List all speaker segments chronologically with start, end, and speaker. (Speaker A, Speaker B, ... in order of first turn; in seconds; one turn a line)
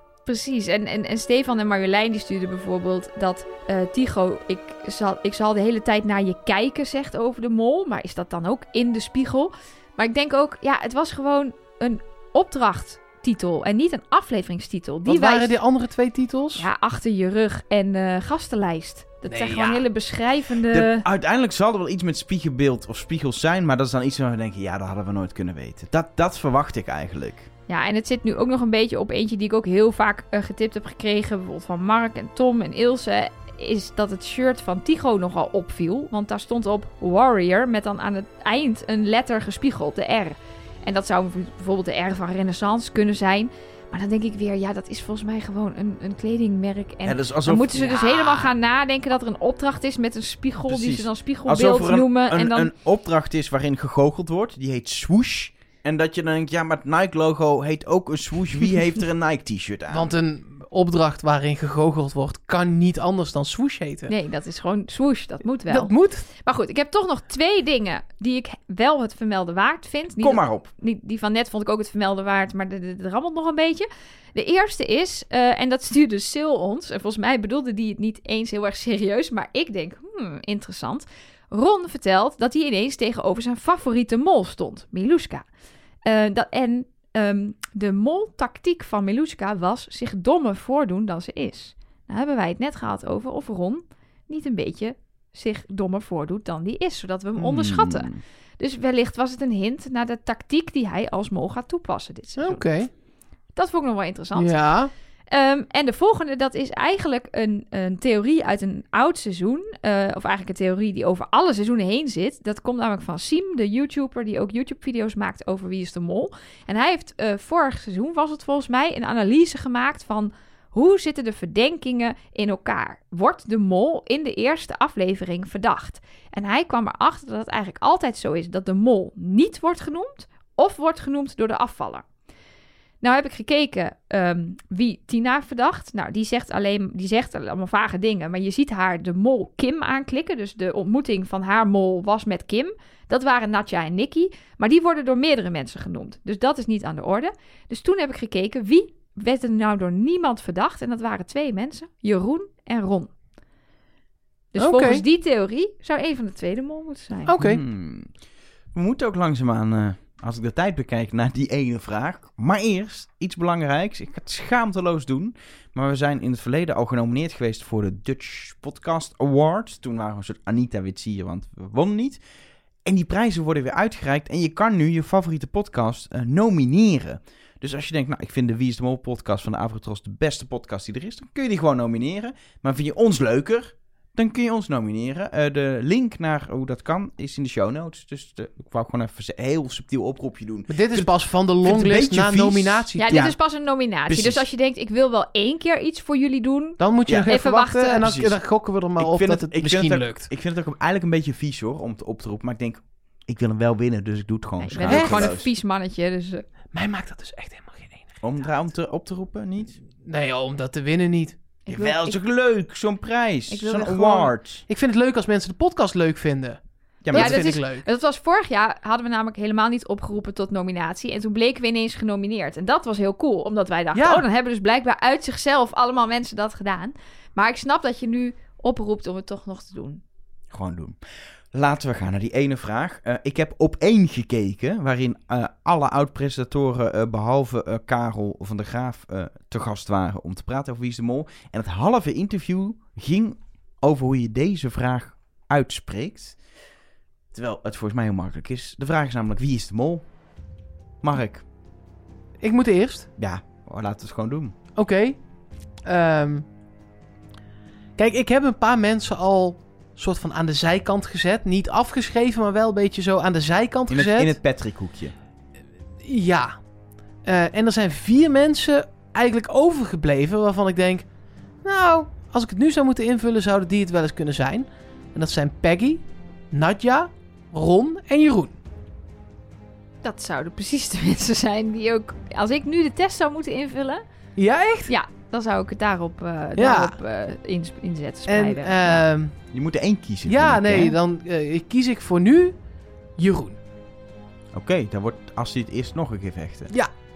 Speaker A: 0.3-15.6
Speaker B: 15.1-16.7
Speaker A: 16.6-21.0
Speaker B: 19.3-19.9
Speaker C: 20.7-27.5
Speaker A: 27.7-52.7
Speaker C: 47.0-48.5
Speaker C: 50.7-60.1
Speaker B: 59.9-64.1
Speaker A: 64.1-85.4
Speaker B: 65.7-66.2
Speaker C: 70.2-70.7
Speaker A: 86.0-98.1
Speaker C: 97.3-98.2
Speaker A: 98.6-102.6
Speaker B: 102.4-102.9
Speaker A: 103.5-104.6
Speaker B: 104.3-104.9
Speaker A: 105.3-132.1
Speaker A: 133.0-153.1
Speaker A: 154.5-157.4
Speaker B: 154.6-155.0
Speaker B: 157.3-157.6
Speaker C: 157.4-158.1
Speaker C: 158.7-172.2
Speaker C: 172.8-193.3
Speaker B: 190.7-193.2
Speaker A: 193.0-198.1
Speaker C: 194.1-194.4
Speaker B: 196.8-200.3
Speaker C: 198.0-198.3
Speaker C: 199.0-205.5
Speaker A: 204.6-206.4
Speaker B: 204.8-205.3
Speaker B: 206.7-208.2
Speaker C: 208.2-209.8
Speaker B: 210.0-211.4
Speaker A: 211.7-212.2
Speaker C: 211.7-214.6
Speaker A: 213.5-214.3
Speaker B: 214.7-217.8
Speaker C: 217.0-217.5
Speaker A: 217.1-230.0
Speaker B: 223.9-224.3
Speaker C: 230.5-231.0
Speaker C: 231.5-246.4
Speaker C: 247.3-250.1
Speaker C: 251.0-251.4
Speaker B: 252.4-253.1
Speaker C: 253.2-254.6
Speaker B: 254.8-255.2
Speaker B: 255.8-256.4
Speaker B: 258.0-264.4
Speaker C: 263.9-265.1
Speaker B: 266.0-266.6
Speaker B: 267.2-271.1
Speaker B: 271.6-278.6
Speaker A: 280.0-284.0
Speaker B: 284.4-284.9
Speaker A: 284.9-289.1
Speaker B: 286.6-286.9
Speaker B: 288.3-289.4
Speaker C: 289.5-290.9
Speaker B: 290.3-292.6
Speaker B: 293.2-293.6
Speaker C: 294.5-296.7